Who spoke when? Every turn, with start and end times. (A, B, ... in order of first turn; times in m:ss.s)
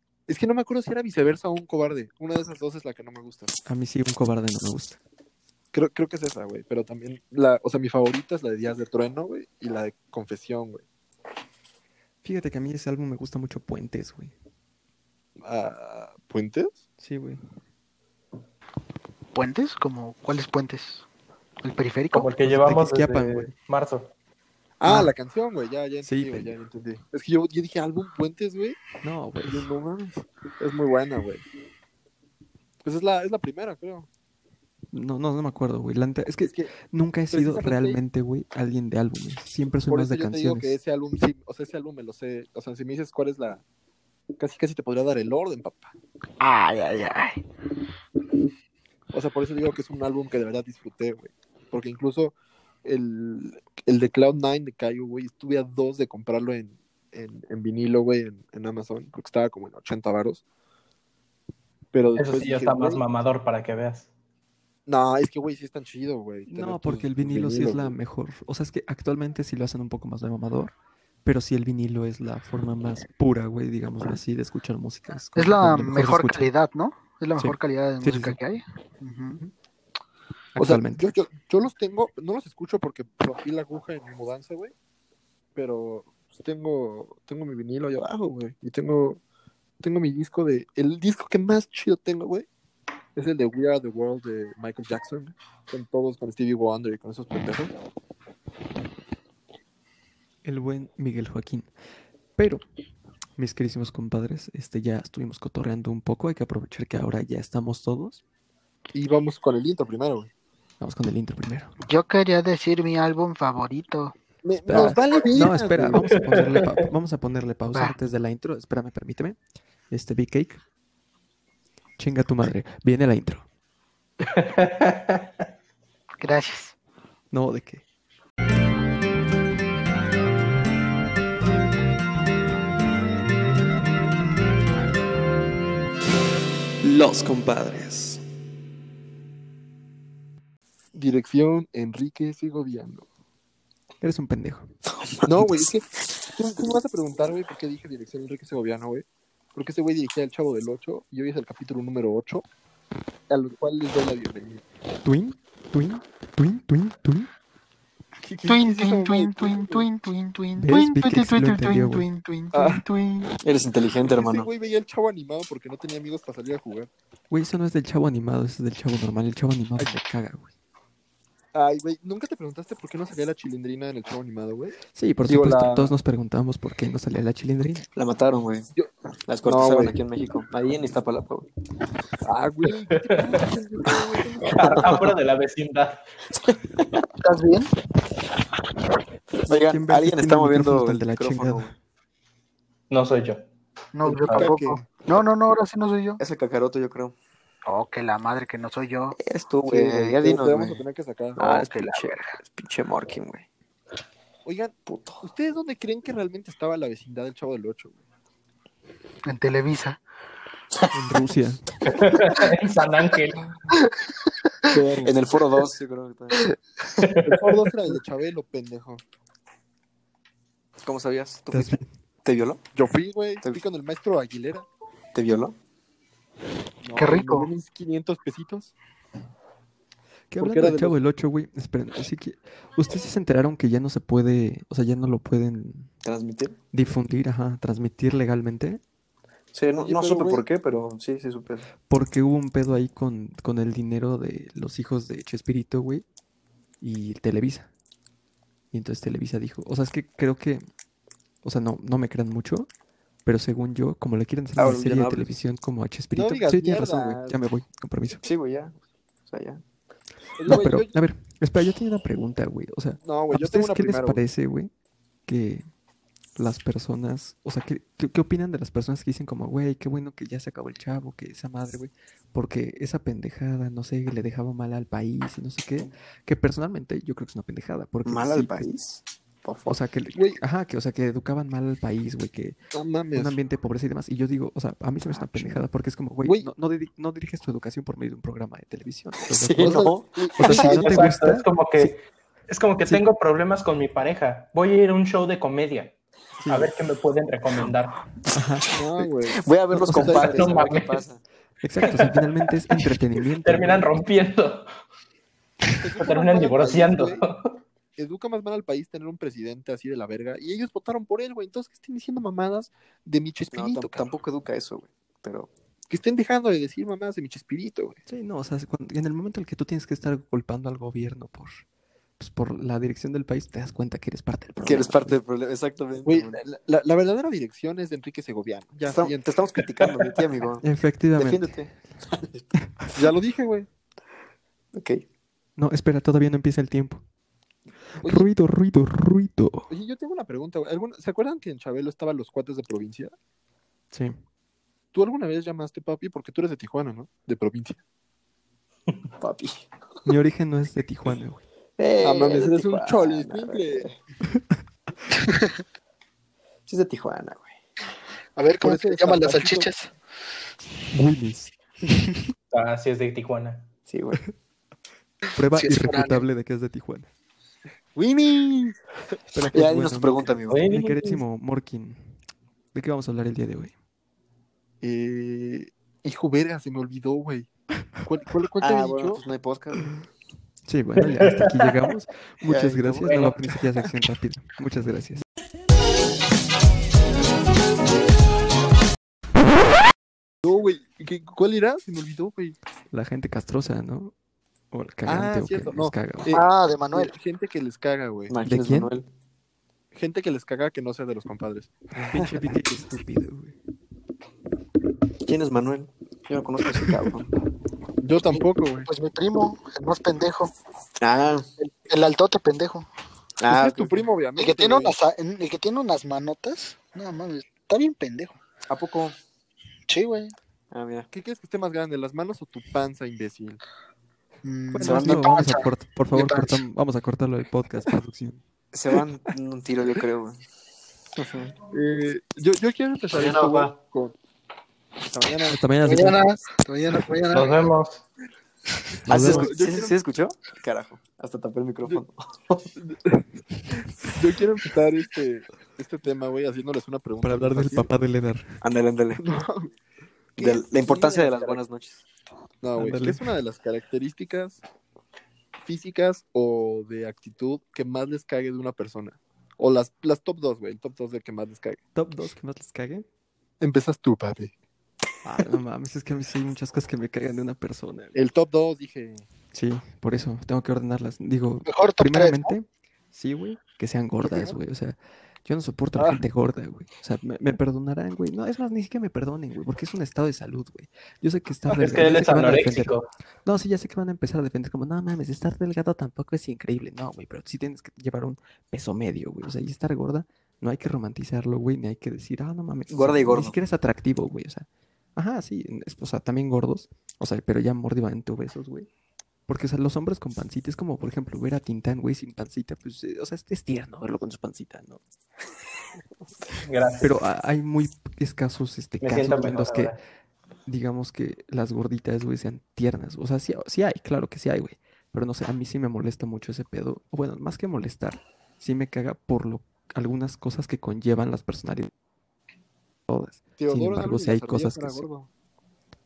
0:00.3-0:03.5 A
0:03.6-0:05.0 B
0:05.7-0:10.8 A
0:12.2-0:14.3 B
0:15.4-0:16.8 A
0:17.0-0:17.4 B
0:19.3-0:21.0 C
0:21.6-0:22.3 C
0:22.1-0:24.1 D
0:22.4-0:23.5 B
0:24.8-0:28.8 A
0:26.0-0:26.5 B
0:29.0-0:29.7 B
0:29.4-0:31.4 A
0:32.8-0:34.1 A
0:34.9-0:40.8 B
0:36.4-0:36.7 A
0:37.3-0:38.0 A
0:39.9-0:43.6 A
0:44.4-0:45.9 A
0:46.4-0:47.2 E
0:49.1-1:00.4 A
1:01.9-1:03.0 A
1:02.2-1:04.1 D
1:04.9-1:07.9 A
1:06.5-1:10.7 B
1:11.2-1:16.5 B
1:15.4-1:19.4 C
1:17.4-1:18.4 B
1:20.5-1:21.1 B
1:20.6-1:24.7 A
1:25.5-1:29.2 A
1:29.8-1:32.5 A
1:33.2-1:37.7 A
1:40.4-1:41.7 B
1:42.4-1:42.6 B
1:43.4-1:48.2 B
1:48.9-1:50.3 A
1:50.8-1:51.7 B
1:51.9-1:54.1 C
1:54.4-1:56.2 A
1:54.7-1:59.4 B
1:59.9-2:00.6 B
2:02.0-2:03.4 B
2:04.2-2:05.3 D
2:06.2-2:06.7 C
2:07.3-2:07.8 B
2:16.8-2:18.2 B
2:20.9-2:23.0 A
2:24.0-2:24.7 B
2:24.9-2:25.6 E
2:25.2-2:32.4 A
2:33.3-2:34.6 A
2:35.0-2:37.3 B
2:38.2-2:39.9 A
2:38.4-2:43.4 C
2:40.6-2:42.1 B
2:42.5-2:42.8 A
2:43.4-2:44.5 E
2:44.0-2:46.9 A
2:47.3-2:50.5 B
2:51.5-2:55.9 A
2:54.9-2:57.9 B
2:58.0-2:58.7 E
2:59.2-3:01.5 E
2:59.4-3:00.0 A
3:02.2-3:05.0 A
3:03.0-3:03.4 D
3:04.4-3:06.0 D
3:04.7-3:05.0 E
3:06.4-3:07.0 E
3:07.2-3:07.7 C
3:09.5-3:11.7 E
3:09.5-3:11.7 B
3:12.9-3:13.4 D
3:13.9-3:16.2 C
3:14.1-3:14.9 A
3:14.1-3:14.5 D
3:16.2-3:17.1 E
3:17.7-3:19.2 C
3:19.2-3:20.8 E
3:19.6-3:21.6 A
3:21.4-3:23.4 E
3:21.5-3:22.4 C
3:24.4-3:28.0 A
3:24.8-3:25.3 E
3:29.2-3:30.0 C
3:30.9-3:31.6 B
3:31.8-3:33.4 D
3:33.7-3:34.7 C
3:34.7-3:36.4 E
3:34.7-3:35.1 A
3:37.0-3:37.4 D
3:37.2-3:39.0 A
3:40.8-3:42.6 E
3:41.5-3:41.9 B
3:42.7-3:44.6 A
3:45.1-3:45.6 E
3:46.8-3:48.7 A
3:46.9-3:47.5 C
3:50.3-3:55.9 B
3:50.4-3:51.0 A
3:56.0-3:56.6 E
3:56.7-3:58.8 B
3:59.5-4:01.6 E
3:59.8-4:00.4 A
4:01.9-4:06.0 B
4:06.8-4:07.7 B
4:08.7-4:10.6 B
4:11.4-4:12.7 B
4:13.2-4:18.2 B
4:14.6-4:15.4 E
4:16.1-4:17.4 A
4:18.2-4:19.6 E
4:20.4-4:21.0 A
4:20.4-4:24.7 B
4:23.0-4:24.2 A
4:25.3-4:25.6 B
4:26.4-4:38.7 B
4:38.0-4:39.8 E
4:39.6-4:42.6 B
4:40.1-4:40.4 A
4:42.7-4:43.4 A
4:43.1-4:51.9 B
4:45.1-4:45.6 E
4:49.3-4:50.5 E
4:49.6-4:51.0 A
4:50.5-4:55.9 D
4:56.4-4:56.7 B
4:56.5-4:58.0 D
4:58.3-4:58.7 B
4:58.7-5:00.6 A
4:59.0-5:01.2 E
4:59.7-5:00.2 B
5:00.1-5:01.0 D
5:01.6-5:04.0 B
5:03.4-5:04.7 D
5:05.8-5:07.2 A
5:06.0-5:07.5 D
5:08.0-5:14.0 A
5:13.5-5:15.5 E
5:15.9-5:18.0 A
5:18.1-5:21.6 B
5:22.2-5:25.2 B
5:24.6-5:26.4 E
5:26.0-5:29.3 A
5:28.9-5:30.6 E
5:30.6-5:31.6 B
5:31.2-5:32.4 E
5:32.6-5:32.9 B
5:32.9-5:33.7 A
5:34.7-5:35.0 E
5:35.6-5:37.0 B
5:38.0-5:39.7 B
5:38.0-5:38.3 A
5:39.7-5:43.1 A
5:43.9-5:44.2 B
5:44.9-5:47.8 A
5:49.2-5:49.6 E
5:50.0-5:51.4 B
5:51.8-5:54.0 E
5:52.0-5:53.9 A
5:56.7-5:57.5 E
5:58.4-5:59.9 C
5:58.6-5:59.7 A
6:00.9-6:01.5 B
6:02.5-6:03.6 D
6:03.9-6:04.2 E
6:05.3-6:07.1 B
6:05.5-6:06.2 C
6:07.9-6:08.8 A
6:09.3-6:12.1 B
6:09.5-6:10.6 E
6:10.5-6:11.2 D
6:12.7-6:13.7 B
6:14.8-6:17.5 A
6:18.0-6:19.2 A
6:18.6-6:19.9 E
6:20.6-6:25.2 B
6:21.2-6:21.6 D
6:22.4-6:23.0 E
6:23.0-6:23.3 D
6:30.4-6:32.6 A
6:32.9-6:34.1 B
6:34.7-6:36.3 B
6:35.0-6:38.4 A
6:36.3-6:37.1 C
6:38.3-6:39.1 E
6:38.4-6:38.9 B
6:39.9-6:41.8 A
6:41.9-6:43.6 B
6:45.2-6:47.3 E
6:48.0-6:48.9 A
6:48.8-6:50.5 C
6:51.0-6:51.4 E
6:51.6-6:52.9 C
6:53.4-6:54.0 E
6:53.5-6:54.9 A
6:54.4-6:58.4 C
6:58.7-6:59.2 E
6:59.9-7:00.3 C
7:00.7-7:01.1 E
7:01.1-7:03.6 A
7:04.4-7:06.6 C
7:04.7-7:08.4 B
7:04.8-7:05.4 E
7:08.7-7:10.4 E
7:11.1-7:11.5 E
7:11.7-7:14.1 A
7:13.1-7:13.7 E
7:13.2-7:13.5 D
7:15.1-7:15.6 A
7:15.5-7:16.3 B
7:15.8-7:17.7 C
7:17.3-7:18.0 D
7:19.0-7:19.5 B
7:19.1-7:22.7 E
7:19.1-7:19.9 A
7:22.8-7:27.9 A
7:27.2-7:28.6 B
7:28.6-7:29.2 E
7:29.2-7:29.7 A
7:30.4-7:31.6 A
7:30.4-7:32.0 E
7:32.6-7:34.6 A
7:32.8-7:33.3 B
7:35.6-7:41.8 A
7:41.9-7:43.0 B
7:43.6-7:44.5 A
7:45.2-7:48.2 B
7:48.1-7:49.2 A
7:49.5-8:18.9 B
7:51.6-7:52.5 C
7:54.2-7:54.6 A
7:56.0-7:56.2 A
8:01.7-8:03.1 D
8:12.9-8:13.5 E
8:19.5-8:25.0 B
8:26.6-8:27.1 D
8:27.0-8:29.9 B
8:29.0-8:30.0 D
8:30.6-8:41.9 B
8:43.1-8:45.0 B
8:43.6-8:45.3 A